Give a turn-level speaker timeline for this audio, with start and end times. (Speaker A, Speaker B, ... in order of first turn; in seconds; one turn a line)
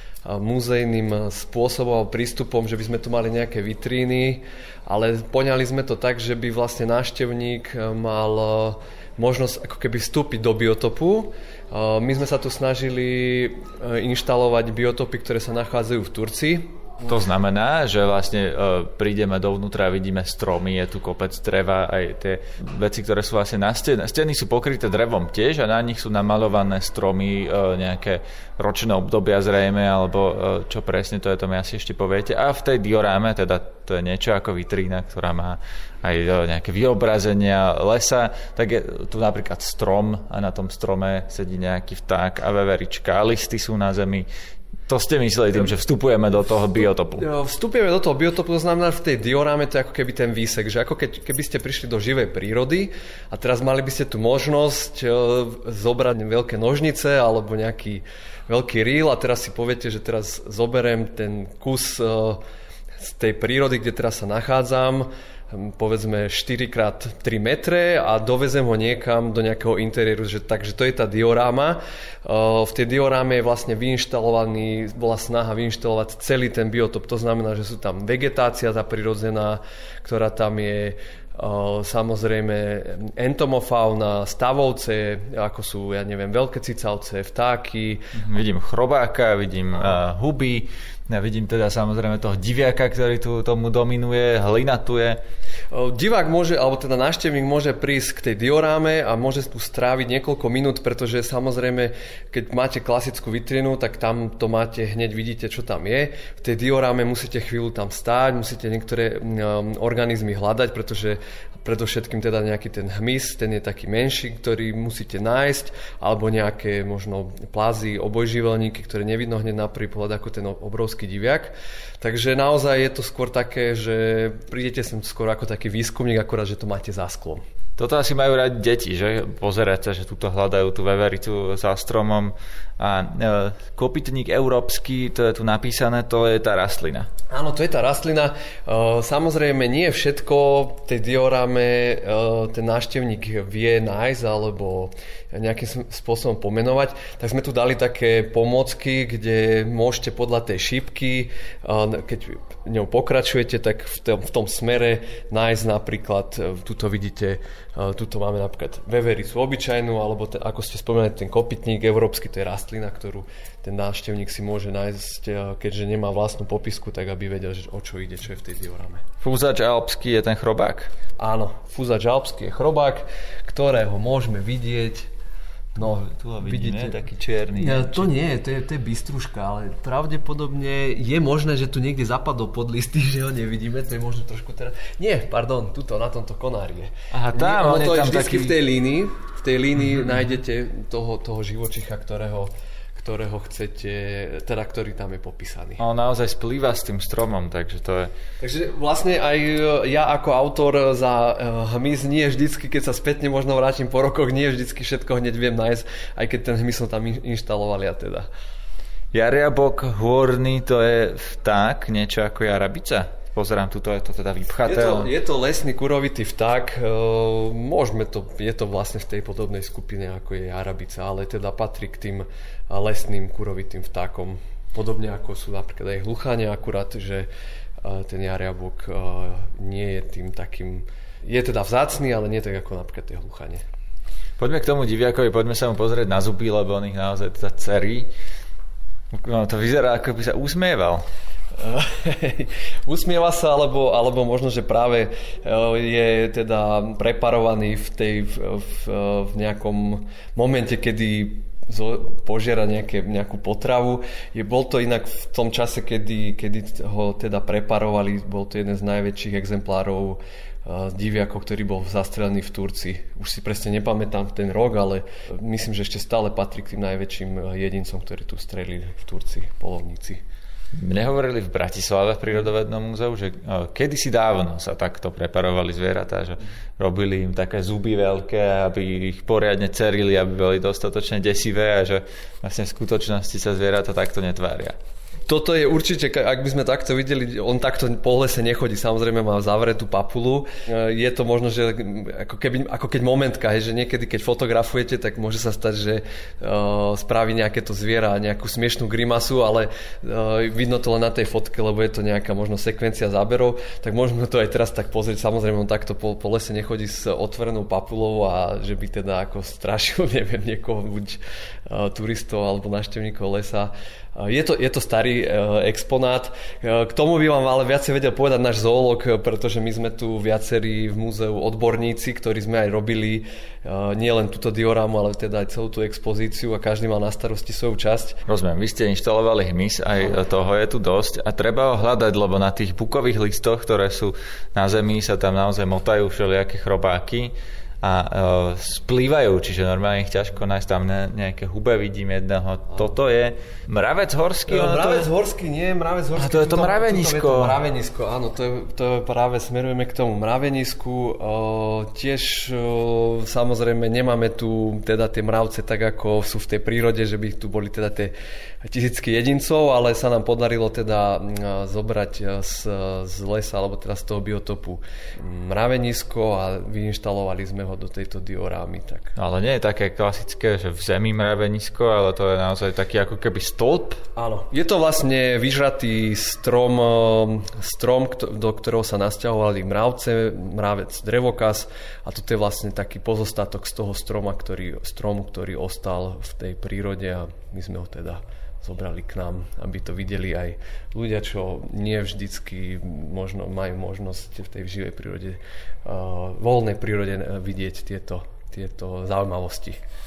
Speaker A: 0.2-16.7
Speaker B: 17.0-44.3
Speaker B: 44.9-47.3
Speaker A: 46.8-62.4
Speaker A: 63.0-88.1
Speaker B: 88.1-95.2
Speaker A: 95.7-127.4
Speaker B: 127.8-137.1
Speaker A: 137.3-169.1
Speaker B: 169.2-170.9
Speaker A: 171.2-175.1
Speaker A: 175.8-177.0
Speaker B: 175.8-178.1
Speaker A: 177.6-195.8
Speaker B: 187.1-188.6
Speaker B: 195.8-198.1
Speaker A: 198.4-208.3
Speaker B: 209.1-215.1
Speaker A: 214.6-227.3
Speaker A: 227.8-233.6
Speaker B: 234.4-238.1
Speaker B: 239.1-241.1
Speaker A: 241.6-270.2
Speaker B: 270.7-284.8
Speaker A: 285.3-328.2
Speaker B: 328.3-345.1
Speaker A: 344.5-369.2
Speaker B: 346.2-347.6
Speaker B: 369.2-374.0
Speaker A: 374.2-399.8